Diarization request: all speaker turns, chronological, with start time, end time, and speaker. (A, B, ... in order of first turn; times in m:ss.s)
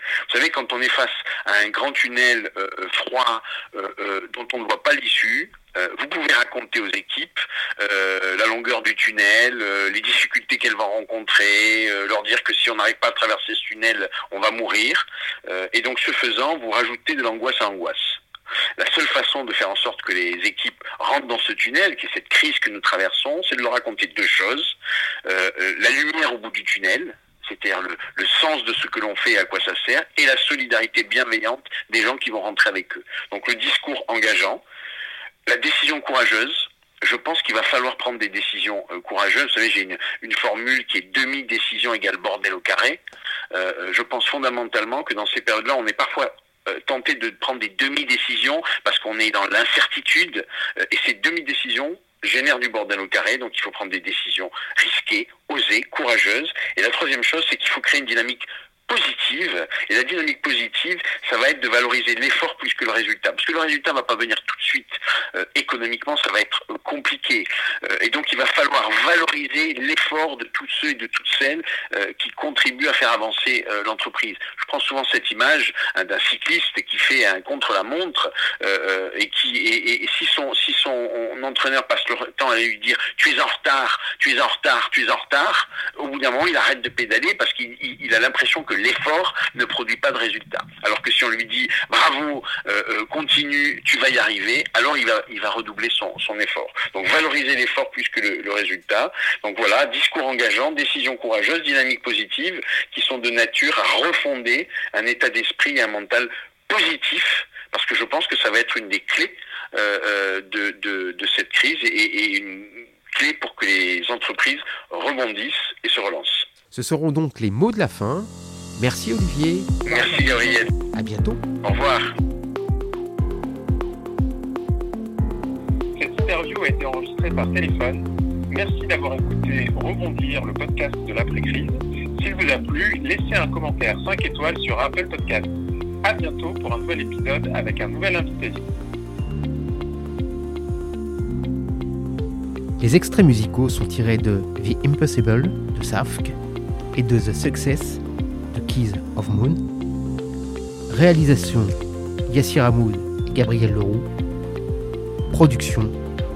0:00.3-0:18.2 A
0:18.8-0:24.7 A
0:25.3-0:34.6 A
0:35.5-0:43.0 A
0:43.5-1:56.5 A
1:56.7-1:59.7 B
1:59.9-2:00.7 A
2:00.9-2:01.4 B
2:01.6-2:02.1 A
2:06.0-2:15.5 C
2:16.0-2:18.6 C
2:22.8-2:26.4 B
2:27.0-2:29.6 B
2:30.9-2:31.8 B
2:32.3-2:34.1 B
2:35.3-2:36.0 B